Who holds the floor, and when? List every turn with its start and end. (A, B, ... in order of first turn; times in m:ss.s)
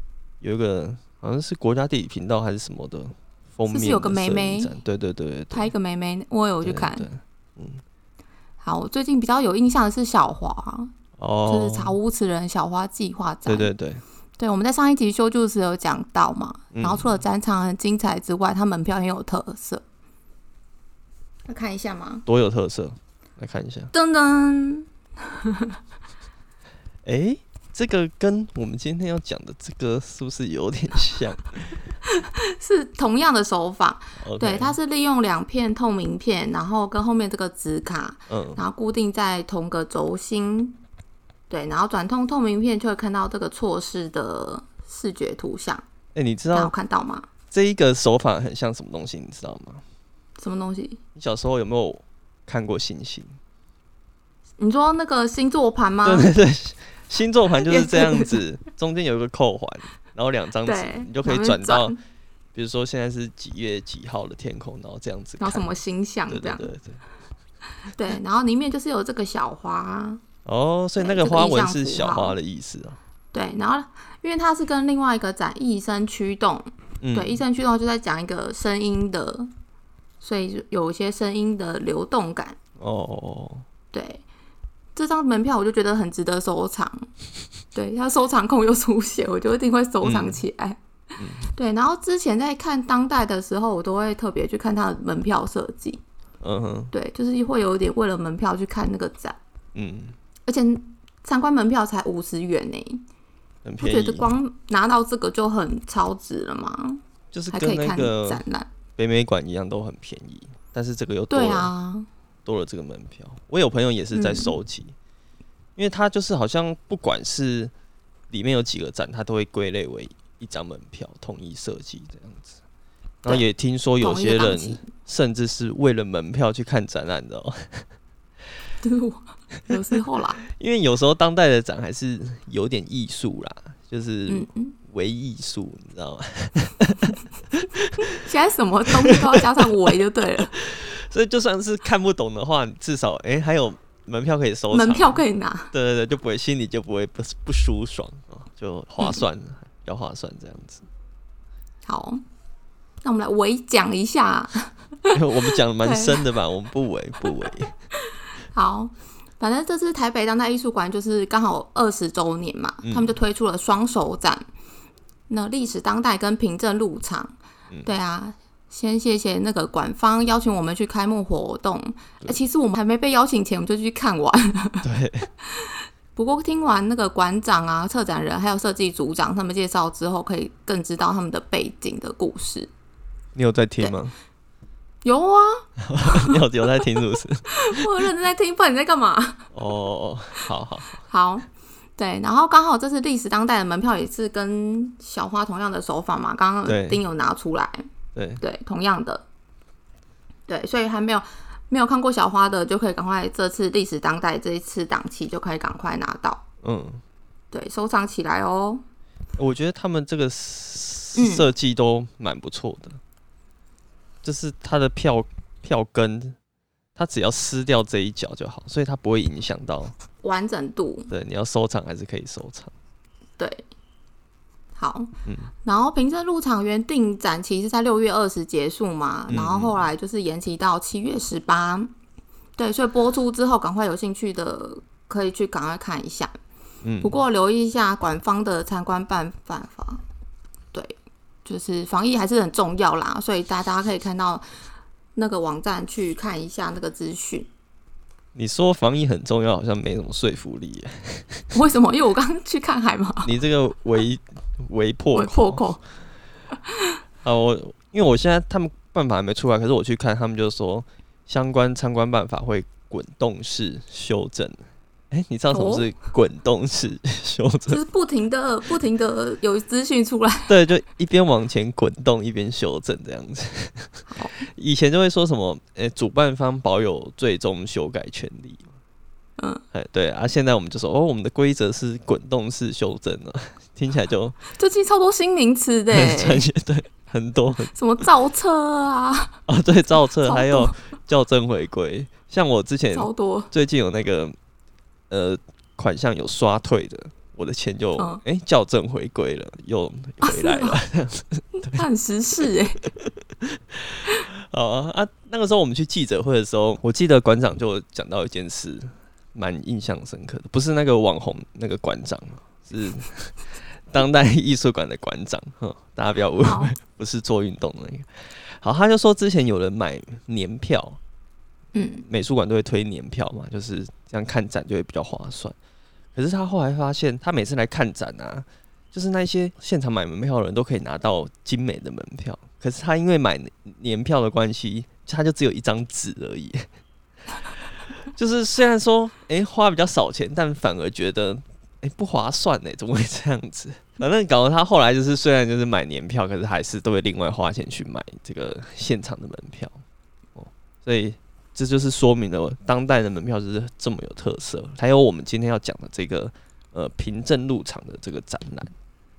0:00.4-0:05.7 A
0:03.7-0:04.8 B
0:05.5-0:07.1 B
0:06.6-0:07.8 A
0:08.6-0:10.9 B
0:11.2-0:12.0 A
0:11.5-0:13.7 B
0:13.4-0:14.0 A
0:14.4-0:19.8 B
0:16.7-0:17.1 A
0:21.5-0:22.2 B
0:22.2-0:23.9 A
0:23.9-0:25.8 B
0:27.0-0:31.8 A
0:32.1-0:40.8 B
0:34.2-0:34.8 A
0:38.3-0:38.6 A
0:41.5-0:45.8 B
0:46.1-0:46.7 A
0:46.5-0:47.3 B
0:47.5-0:49.8 A
0:50.4-0:51.0 B
0:51.1-0:53.4 A
0:54.6-0:56.3 B
0:56.0-1:01.9 A
0:57.6-0:58.4 B
1:00.6-1:02.0 B
1:02.5-1:05.6 A
1:05.4-1:06.7 B
1:06.3-1:07.0 A
1:07.9-1:10.2 B
1:10.4-1:13.0 A
1:11.0-1:12.3 B
1:13.3-1:19.5 B
1:17.0-1:17.4 A
1:20.2-1:22.6 B
1:22.8-1:23.6 A
1:23.9-1:24.2 B
1:24.9-1:27.1 B
1:27.7-1:30.8 B
1:30.0-1:30.4 A
1:31.2-1:31.5 A
1:31.4-1:36.0 B
1:36.4-1:36.9 A
1:36.9-1:39.4 B
1:39.7-1:40.2 A
1:40.5-1:43.0 B
1:43.6-1:44.3 A
1:43.8-1:47.0 B
1:47.3-1:48.4 A
1:47.5-1:48.7 B
1:49.0-1:51.7 A
1:51.3-1:52.1 B
1:52.4-1:54.9 A
1:54.1-1:54.5 B
1:55.8-1:57.7 A
1:58.3-2:02.5 A
2:03.2-2:07.8 A
2:04.0-2:04.9 B
2:08.8-2:10.4 B
2:10.5-2:18.2 A
2:14.3-2:14.8 B
2:18.0-2:20.5 B
2:19.0-2:19.7 A
2:20.4-2:25.2 A
2:24.7-2:25.7 B
2:25.7-2:30.8 A
2:31.8-2:32.2 B
2:33.0-2:35.2 B
2:35.1-2:37.7 A
2:35.8-2:36.2 B
2:38.5-2:44.5 B
2:42.8-2:43.1 A
2:45.3-2:54.8 B
2:54.8-2:55.3 A
2:55.5-3:02.7 B
3:03.3-3:04.1 A
3:05.0-3:06.4 B
3:05.8-3:07.9 A
3:07.5-3:09.5 B
3:09.5-3:11.0 A
3:11.1-3:17.8 B
3:16.6-3:17.0 A
3:18.1-3:18.4 A
3:18.4-3:19.2 B
3:20.5-3:26.4 B
3:26.6-3:27.0 A
3:27.5-3:28.8 B
3:29.4-3:33.0 A
3:31.2-3:31.4 B
3:34.2-3:36.4 A
3:37.0-3:39.9 A
3:40.2-3:41.1 B
3:41.1-3:42.7 A
3:43.4-3:43.6 B
3:44.8-3:45.1 B
3:45.2-3:45.5 A
3:45.6-3:51.9 B
3:49.3-3:49.8 A
3:52.6-3:56.4 B
3:56.8-3:57.1 A
3:57.0-4:00.0 B
4:00.7-4:04.5 B
4:05.2-4:07.5 B
4:08.3-4:11.4 A
4:11.5-4:13.3 B
4:13.2-4:15.6 A
4:15.1-4:15.8 B
4:16.7-4:17.0 B
4:17.2-4:24.6 A
4:25.1-4:27.8 A
4:25.5-4:25.9 B
4:27.7-4:30.5 B
4:30.5-4:38.7 A
4:34.1-4:34.4 B
4:39.7-4:44.4 A
4:44.5-4:46.4 B
4:45.9-4:47.7 A
4:47.7-4:49.4 B
4:49.5-4:54.3 A
4:50.2-4:50.8 B
4:52.9-4:53.5 B
4:55.1-5:01.8 A
5:00.2-5:00.8 B
5:01.6-5:02.8 B
5:03.0-5:13.4 A
5:13.9-5:21.0 A
5:16.4-5:16.7 B
5:21.7-5:22.0 B
5:22.0-5:25.6 A
5:26.1-5:36.6 A
5:38.1-5:49.8 A
5:50.3-5:58.7 A